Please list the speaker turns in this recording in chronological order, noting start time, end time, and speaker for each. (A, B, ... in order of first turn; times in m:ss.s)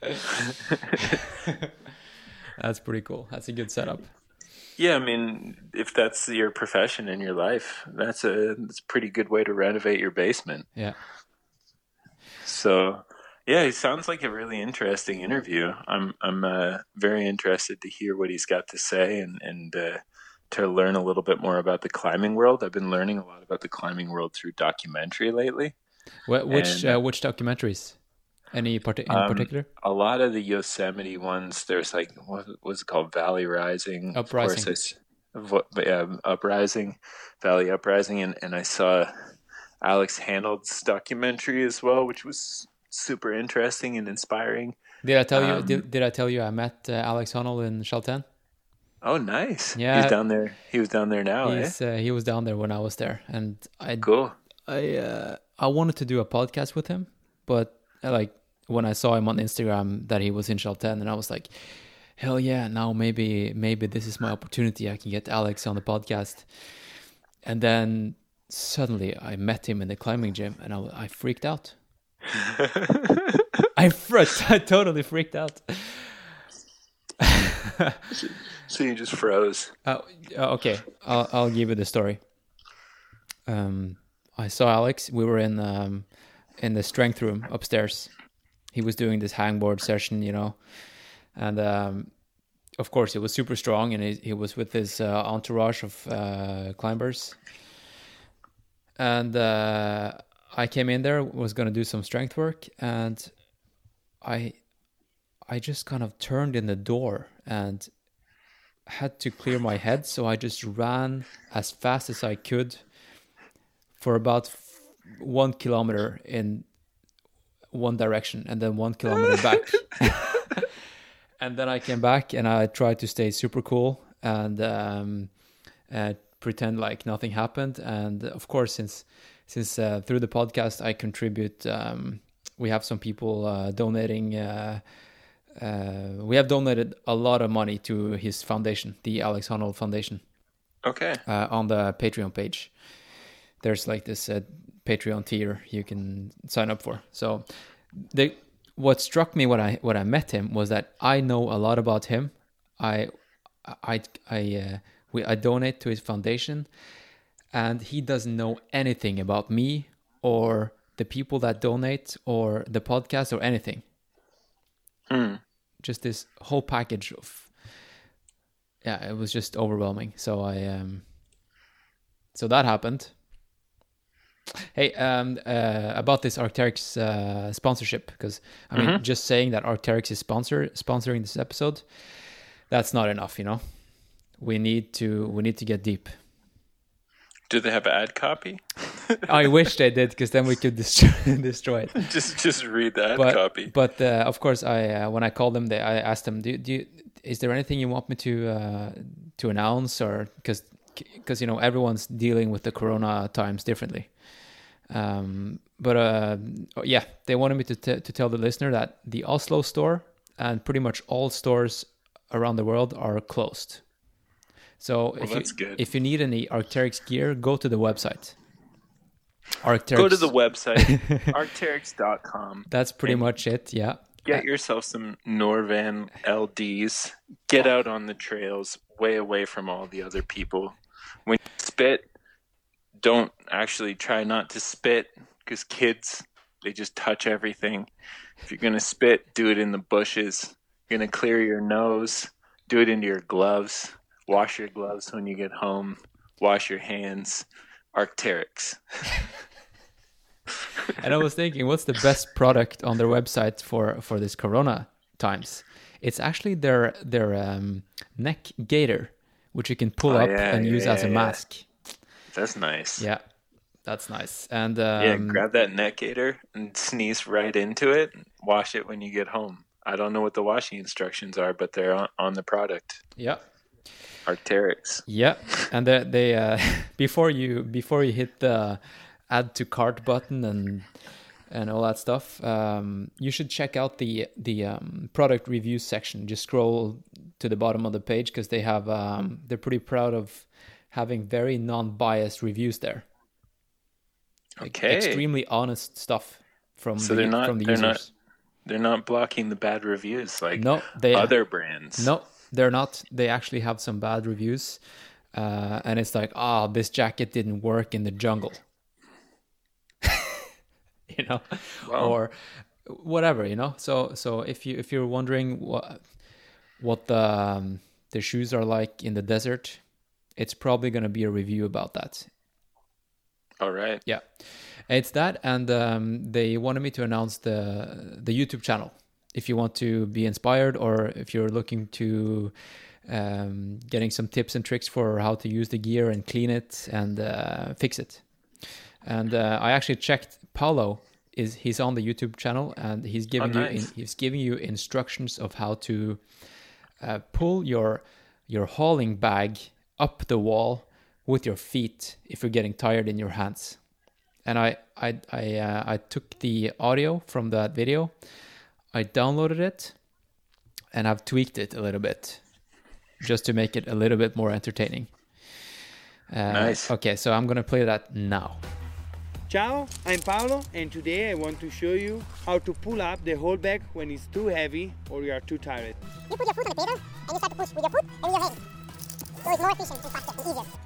0:02.6-0:04.1 A
0:04.8-0:10.7 B
0:12.4-0:25.7 B
0:26.3-0:28.0 A
0:26.5-0:27.0 B
0:28.5-0:29.7 A
0:29.1-0:39.1 B
0:34.1-0:34.8 A
0:39.8-0:44.8 B
0:45.0-0:48.3 A
0:45.3-0:45.8 B
0:49.0-0:51.8 B
0:49.8-0:50.2 A
0:51.4-0:54.1 A
0:54.0-0:54.3 B
0:54.7-1:11.8 A
1:13.8-1:16.3 A
1:17.2-1:18.0 A
1:18.1-1:19.7 B
1:19.8-1:22.2 A
1:23.5-1:28.1 A
1:28.7-1:32.2 A
1:32.8-1:37.4 A
1:39.0-1:43.4 A
1:44.2-1:44.6 A
1:45.4-1:47.9 A
1:48.9-1:52.9 A
1:54.0-1:56.7 A
1:57.7-2:00.4 A
2:01.4-2:05.3 A
2:05.9-2:14.8 A
2:15.5-2:20.2 A
2:20.8-2:21.2 B
2:21.3-2:22.8 A
2:23.6-2:36.7 A
2:37.5-2:43.8 A
2:45.1-2:45.4 B
2:45.8-2:47.8 A
2:48.8-2:51.1 A
2:52.3-2:53.2 A
2:54.7-3:03.8 A
2:58.7-2:59.0 B
3:04.3-3:06.2 A
3:07.5-3:09.2 B
3:09.2-3:12.1 A
3:12.0-3:13.7 B
3:13.2-3:33.9 A
3:34.8-3:38.4 A
3:35.2-3:35.8 B
3:39.6-3:41.3 A
3:39.9-3:43.4 B
3:42.7-3:44.4 A
3:44.2-3:52.0 B
3:53.0-3:57.9 B
3:58.5-4:09.1 B
4:11.0-4:21.7 A
4:20.1-4:21.4 B
4:22.3-4:23.1 B
4:23.0-4:23.2 A
4:23.8-4:25.4 A
4:25.0-4:33.0 B
4:33.2-4:34.1 A
4:34.2-4:35.1 B
4:35.1-4:53.1 A
4:54.6-4:55.2 B
4:54.6-4:58.1 A
4:57.0-4:58.0 B
4:58.7-5:02.1 B
5:00.6-5:08.6 A
5:11.1-5:22.3 A
5:11.8-5:12.2 B
5:23.6-5:24.0 B
5:24.1-5:53.9 A
5:43.4-5:43.9 B
5:54.4-6:00.0 A
6:00.9-6:02.5 A
6:03.2-6:05.6 A
6:06.3-6:08.6 A
6:06.5-6:06.9 B
6:09.5-6:16.1 C
6:16.3-6:18.6 D
6:19.4-6:20.7 D